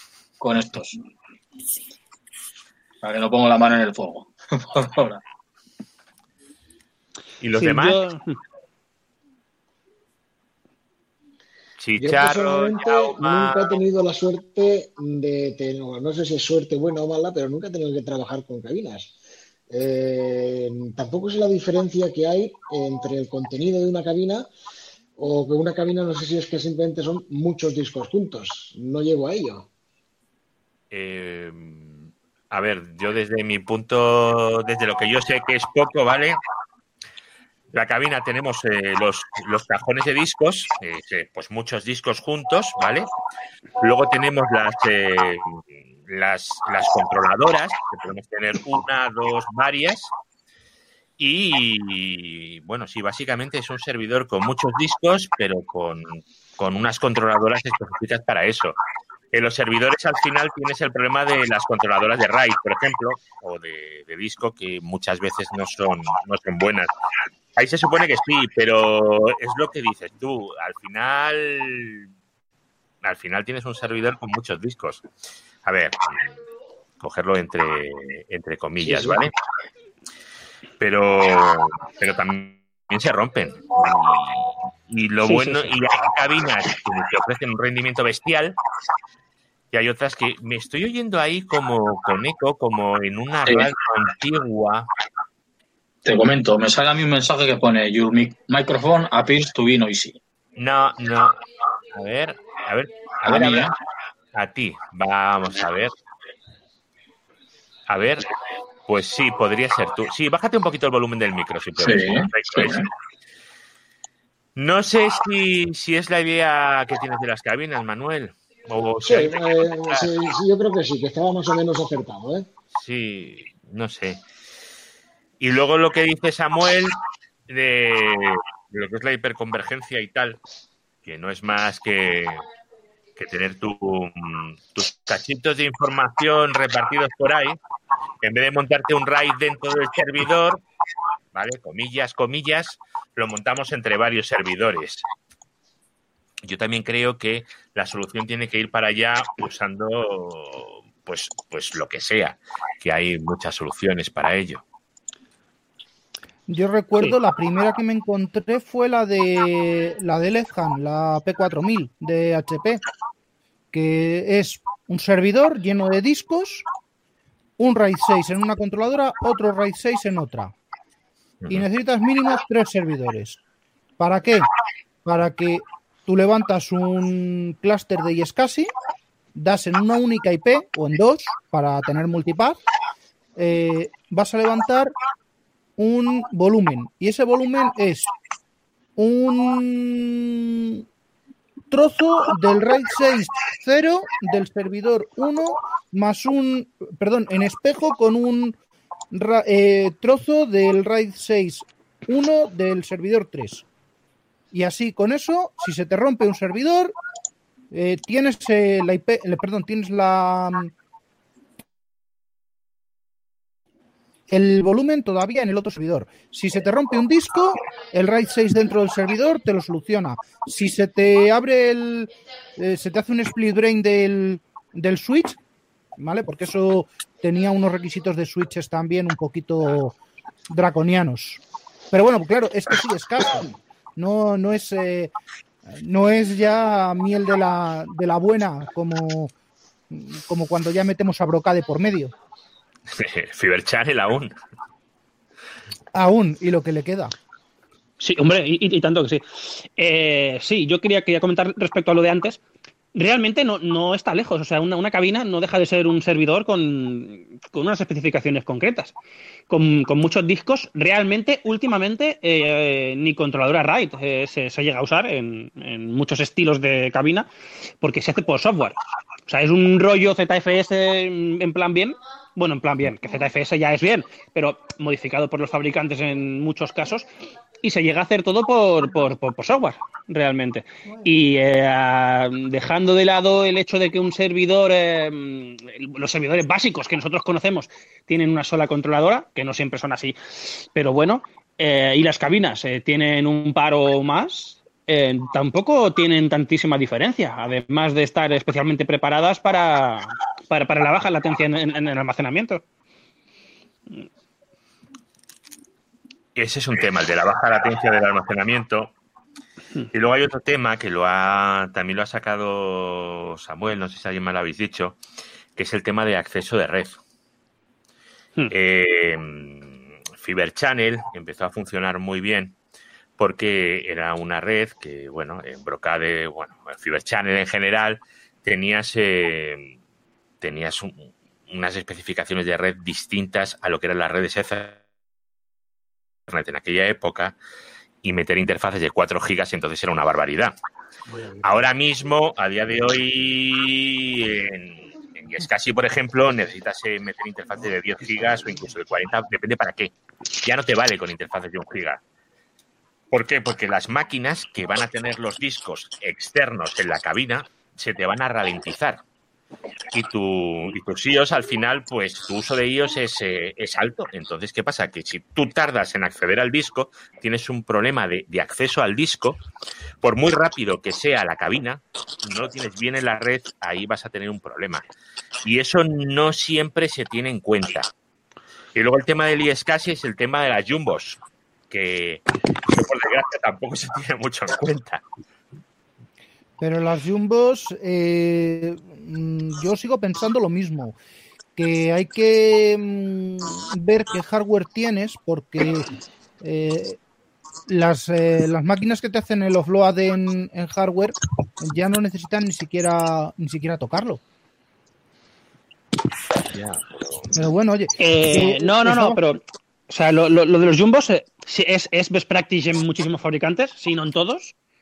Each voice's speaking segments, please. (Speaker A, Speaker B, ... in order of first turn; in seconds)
Speaker A: 0.4-1.0, 3.0-5.2, 96.0-100.2, 103.3-103.7, 111.8-112.9
Speaker B: 7.4-8.0, 11.8-13.8, 30.9-36.4, 37.7-43.1, 43.8-50.1, 51.2-58.8, 59.3-66.9, 67.6-72.1, 73.0-75.1, 75.7-76.3, 77.0-79.3, 80.8-88.6, 89.7-94.9, 100.6-101.4, 101.9-103.7, 104.3-105.9, 107.9-108.3, 108.9-112.9, 114.6-120.1, 122.8-124.2, 125.4-130.4, 131.1-132.4, 133.2-137.6, 138.2-140.6, 141.3-145.0, 146.4-154.6, 242.9-244.3, 306.4-308.9, 309.9-315.0, 315.6-317.0, 318.5-322.6, 323.2-329.7, 330.4-334.8, 336.3-337.4, 338.0-340.6, 341.4-352.0, 353.1-359.0, 359.9-369.4, 370.0-374.9, 375.4-377.9, 378.8-381.2, 381.7-385.0, 406.5-407.3
Speaker C: 7.5-8.4, 78.8-79.2, 85.2-85.7, 248.0-252.4, 252.9-258.9, 259.5-267.3, 267.8-268.8, 269.3-277.1, 277.6-302.6, 408.0-414.5
Speaker D: 12.0-19.1, 19.7-24.5, 25.2-29.7, 119.0-122.5
Speaker E: 156.5-162.8, 163.7-166.7, 167.6-170.6, 171.5-173.4, 174.0-174.5, 175.1-178.7, 179.3-182.6, 183.4-184.9, 185.8-188.1, 189.0-190.8, 191.7-198.6, 199.1-203.7, 204.5-206.9, 207.7-210.7, 214.3-225.4, 226.0-229.9, 230.5-235.1, 235.7-239.3, 239.9-242.1, 245.9-247.2, 386.6-391.0, 391.6-397.0, 397.7-404.2, 407.3-409.2